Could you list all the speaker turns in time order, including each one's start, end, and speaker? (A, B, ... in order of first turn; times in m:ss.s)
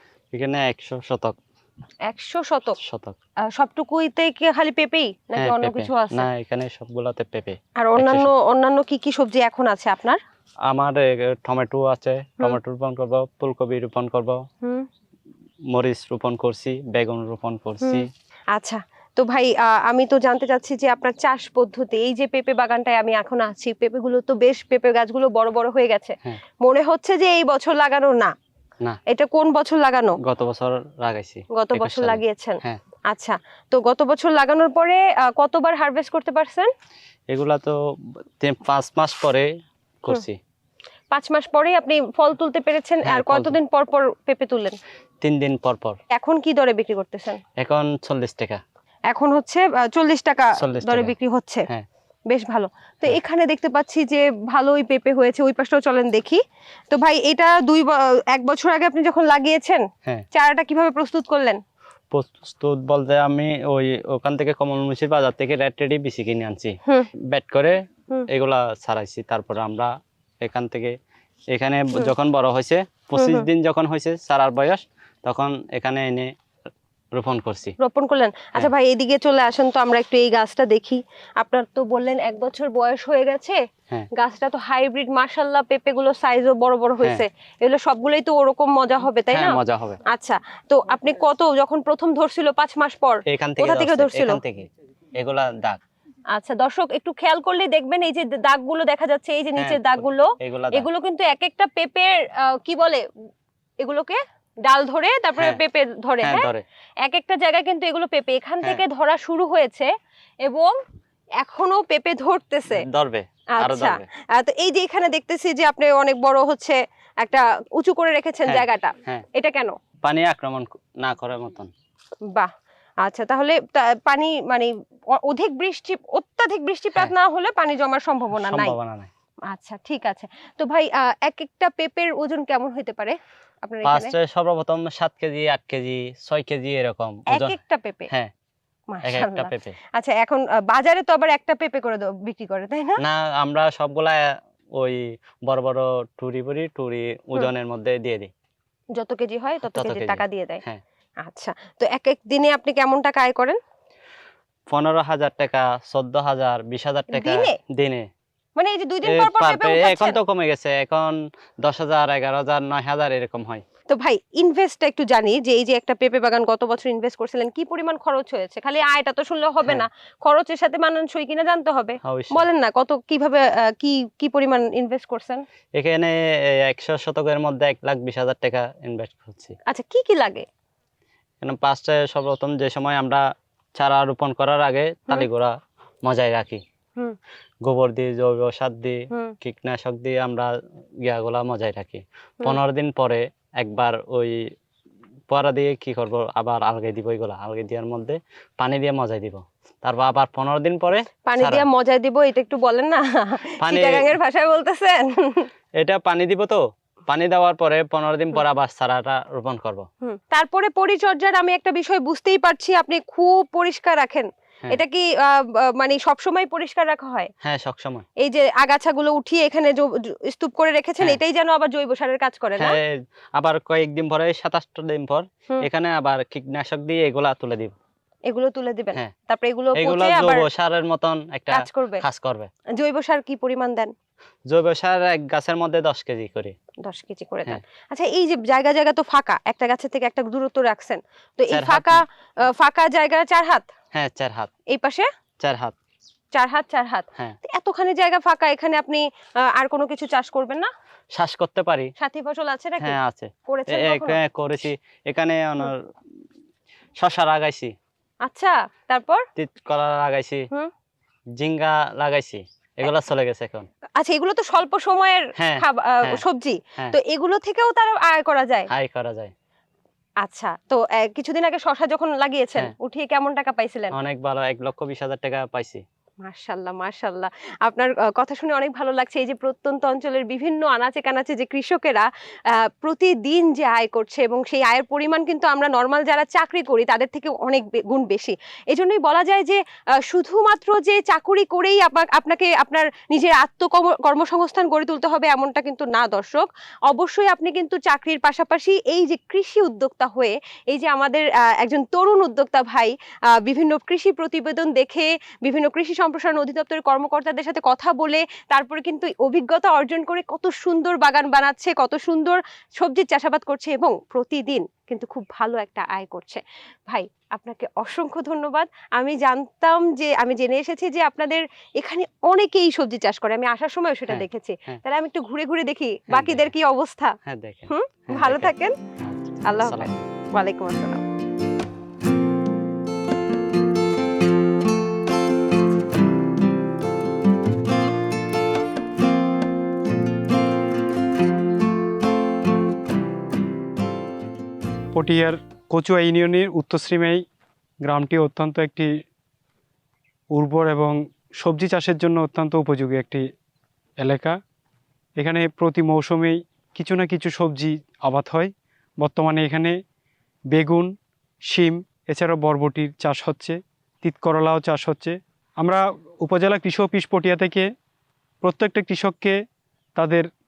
0:00.3-0:01.4 A
0:02.1-0:02.8 B
0:02.8-0:03.2 A
0:03.6-0:06.3 B
0:05.4-0:08.3 A
0:07.8-0:10.2 B
0:10.7-0:14.4 A
0:14.6-0:14.9 B
0:15.7-0:18.1 A
0:17.8-0:28.3 B
0:29.1-0:30.2 B
0:30.2-0:32.8 A
0:31.5-0:36.7 B
0:37.3-0:37.8 A
0:38.4-0:39.5 A
0:40.0-0:40.4 A
0:41.1-0:44.8 B
0:43.1-0:43.6 A
0:45.2-0:46.0 A
0:46.1-0:47.4 B
0:47.6-0:48.6 A
0:49.1-0:51.7 B
0:50.6-0:51.1 A
0:52.3-0:56.4 B
0:56.9-1:01.6 B
1:02.1-1:06.7 A
1:07.3-1:09.9 A
1:10.4-1:10.9 A
1:11.5-1:16.3 A
1:13.2-1:13.5 B
1:17.2-1:17.8 A
1:17.8-1:23.6 B
1:24.2-1:34.4 B
1:29.3-1:30.0 A
1:33.3-1:35.8 A
1:36.3-1:43.0 B
1:39.6-1:40.9 A
1:43.8-1:46.5 B
1:46.2-1:46.6 A
1:47.0-1:49.9 B
1:50.4-1:50.7 B
1:51.4-1:52.8 B
1:52.7-1:54.0 A
1:53.6-1:59.8 B
1:58.5-1:59.2 A
2:00.0-2:01.7 A
2:03.0-2:08.8 B
2:08.3-2:09.1 A
2:09.5-2:14.1 B
2:13.8-2:17.6 A
2:17.3-2:18.1 B
2:18.9-2:23.0 B
2:19.0-2:19.8 A
2:23.0-2:24.2 A
2:24.8-2:28.3 A
2:29.0-2:30.6 B
2:29.7-2:30.8 A
2:31.2-2:33.6 B
2:34.7-2:38.1 A
2:37.1-2:37.6 B
2:38.6-2:40.2 B
2:39.0-2:43.6 A
2:43.9-2:55.4 B
2:52.0-2:52.4 A
2:55.8-2:56.2 A
2:56.7-2:59.5 A
2:59.7-3:00.5 B
3:01.4-3:03.2 A
3:03.8-3:06.6 A
3:07.7-3:10.5 A
3:11.0-3:14.3 A
3:15.3-3:21.7 A
3:21.3-3:25.5 B
3:23.6-3:24.1 A
3:25.8-3:29.9 A
3:30.0-3:37.3 B
3:37.4-3:38.0 A
3:38.2-3:42.8 B
3:42.6-3:47.8 A
3:48.3-3:50.5 B
3:49.8-3:52.5 A
3:51.5-3:52.0 B
3:52.8-3:53.9 B
3:54.5-3:56.6 A
3:56.8-4:03.7 B
4:01.5-4:02.0 A
4:03.9-4:04.5 A
4:04.7-4:05.1 B
4:05.4-4:05.8 A
4:06.3-4:10.7 B
4:11.2-4:11.9 A
4:12.0-4:13.0 B
4:12.8-4:15.8 A
4:13.5-4:14.2 B
4:17.0-4:17.7 A
4:18.2-4:19.2 B
4:19.4-4:20.5 A
4:21.4-4:23.7 A
4:24.0-4:28.7 B
4:25.4-4:26.2 A
4:28.7-4:29.3 A
4:30.2-4:34.0 B
4:33.9-4:35.8 A
4:36.2-5:02.9 B
5:03.4-5:27.2 B
5:24.1-5:24.8 A
5:26.1-5:26.5 A
5:27.3-5:30.0 A
5:27.7-5:28.8 B
5:29.5-5:31.0 B
5:45.0-5:47.2 C
5:47.8-5:48.9 C
5:50.3-5:53.3 C
5:54.0-5:54.4 C
5:55.2-5:59.8 C
6:00.5-6:00.9 C
6:01.5-6:07.7 C
6:08.4-6:09.4 C
6:10.0-6:10.3 C